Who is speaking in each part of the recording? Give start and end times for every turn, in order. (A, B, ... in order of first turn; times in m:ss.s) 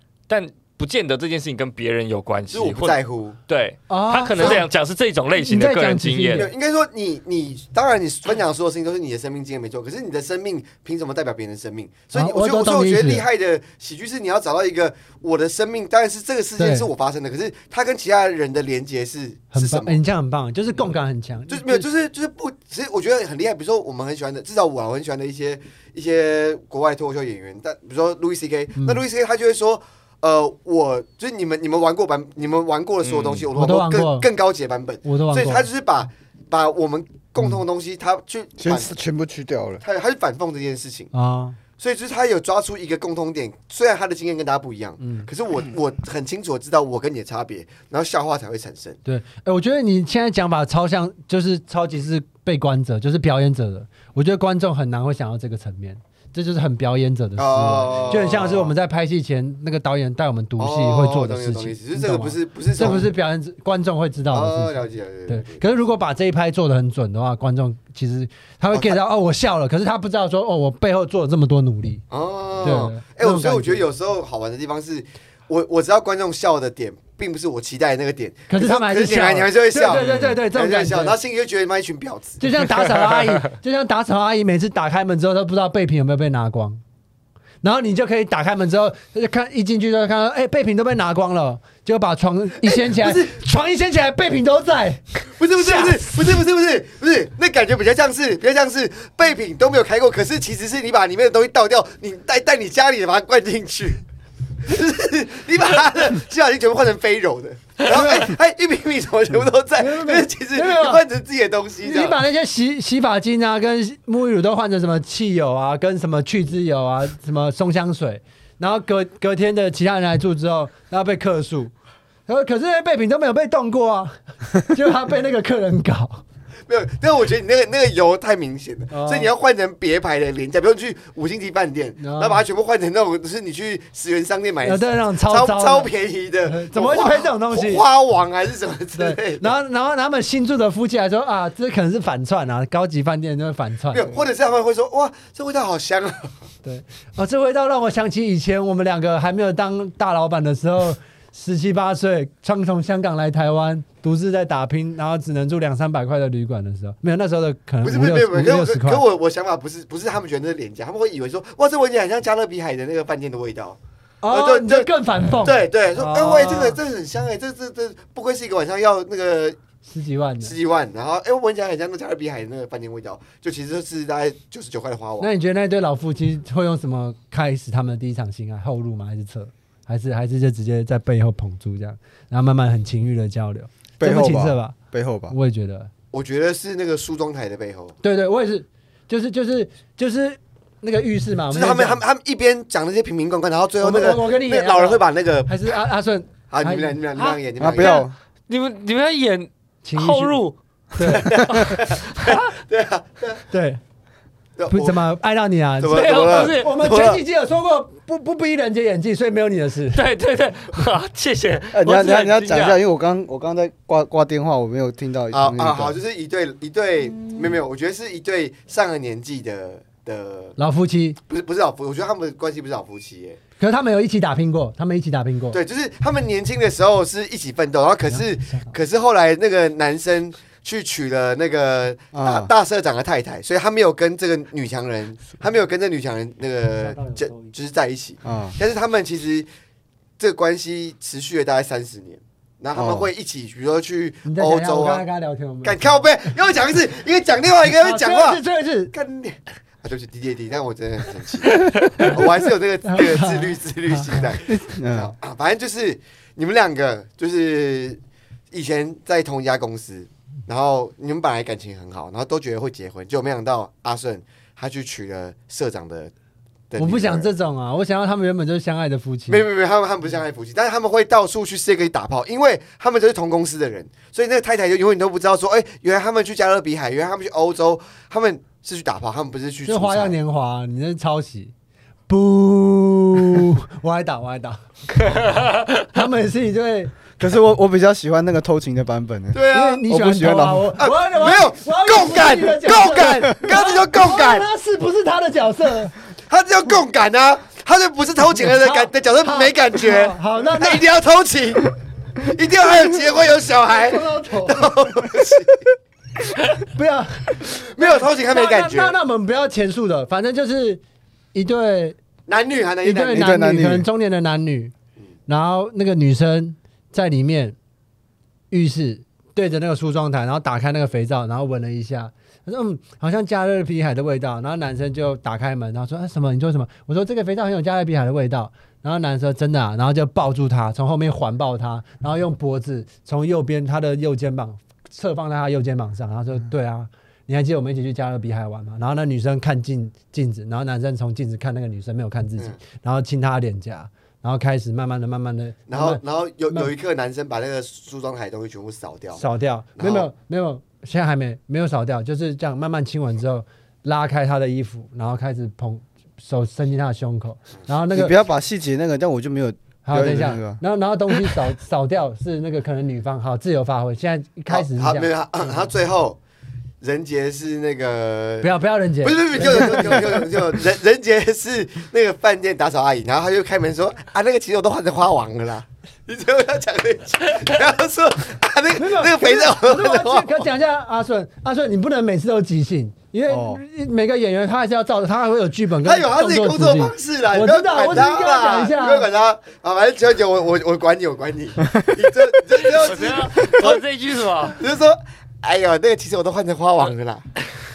0:00.3-0:06.5 A
0:02.5-0:03.4 B
0:03.9-0:04.7 C
0:04.4-0:04.6 B
0:05.4-0:06.5 C
0:06.4-0:20.0 B
0:12.1-0:13.2 C
0:16.6-0:16.9 C
0:19.5-0:21.9 C
0:21.5-0:38.9 B
0:28.8-0:29.0 C
0:33.0-0:33.5 A
0:33.5-0:34.3 C
0:35.0-0:35.7 C
0:38.6-0:39.8 D
0:39.8-0:41.1 B
0:41.1-0:41.6 C
0:41.8-0:49.0 B
0:45.0-0:45.3 C
0:49.0-1:04.8 C
0:57.4-0:58.7 B
1:00.6-1:03.1 B
1:04.3-1:05.7 B
1:05.3-1:12.0 C
1:08.7-1:09.0 B
1:12.1-1:22.4 B
1:12.6-1:13.9 C
1:18.5-1:21.2 C
1:19.9-1:20.4 A
1:22.4-1:26.8 C
1:27.6-1:36.1 C
1:32.6-1:33.3 B
1:35.4-1:44.0 B
1:44.6-1:52.2 B
1:47.9-1:48.3 C
1:49.8-1:51.0 C
1:51.8-2:01.7 C
2:02.3-2:06.2 C
2:06.7-2:19.5 B
2:08.9-2:09.3 C
2:12.0-2:12.4 C
2:14.6-2:15.9 C
2:16.5-2:17.8 C
2:19.0-2:24.1 C
2:23.9-2:26.4 B
2:26.6-2:39.0 C
2:37.8-2:43.8 B
2:44.2-2:46.8 C
2:44.3-2:49.6 B
2:49.8-2:50.6 C
2:50.4-2:55.3 B
2:55.2-3:04.8 C
3:04.0-3:05.4 D
3:05.3-3:05.9 C
3:06.1-3:08.0 B
3:08.0-3:12.0 C
3:11.5-3:15.5 B
3:13.8-3:18.0 C
3:16.5-3:18.1 B
3:17.6-3:18.1 D
3:18.5-3:22.5 A
3:19.8-3:20.4 C
3:21.0-3:21.3 C
3:21.1-3:23.4 B
3:23.5-3:23.8 C
3:24.6-3:25.0 B
3:24.7-3:30.0 C
3:25.8-3:27.2 B
3:25.9-3:27.0 A
3:29.9-3:32.8 A
3:31.7-3:36.0 D
3:35.3-3:40.6 B
3:40.6-3:41.2 C
3:41.3-3:43.4 B
3:43.6-3:45.6 C
3:45.5-3:59.5 B
3:48.1-3:48.7 C
3:52.1-3:52.5 D
3:56.8-3:57.5 C
3:58.2-3:58.6 D
4:00.2-4:05.0 B
4:02.7-4:03.1 D
4:04.2-4:05.8 C
4:05.6-4:08.4 B
4:07.8-4:08.9 C
4:08.9-4:26.1 B
4:12.0-4:12.3 C
4:12.9-4:14.3 C
4:14.5-4:15.1 D
4:26.7-4:27.3 B
4:26.8-4:29.4 C
4:29.3-4:40.1 B
4:39.7-4:41.5 C
4:42.1-4:44.6 C
4:45.1-4:45.9 A
4:45.9-4:47.0 C
4:47.2-4:50.7 D
4:49.3-4:49.9 B
4:49.5-4:55.9 C
4:50.8-4:54.5 B
4:56.3-5:05.7 B
4:58.4-5:00.8 C
5:03.7-5:04.6 C
5:06.6-5:10.8 C
5:07.4-5:09.0 B
5:11.3-5:12.0 C
5:12.3-5:13.3 B
5:12.8-5:14.7 C
5:13.1-5:13.9 D
5:15.3-5:17.6 C
5:18.5-5:46.7 C
5:45.7-5:49.2 B
5:49.2-5:58.2 C
5:49.8-5:50.1 B
5:57.9-6:00.6 D
5:59.8-6:05.1 C
6:04.5-6:06.2 B
6:06.8-6:08.5 B
6:08.4-6:10.2 C
6:09.0-6:20.5 B
6:18.8-6:29.1 C
6:23.3-6:23.6 D
6:25.8-6:33.8 B
6:32.6-6:34.6 A
6:34.5-6:37.2 B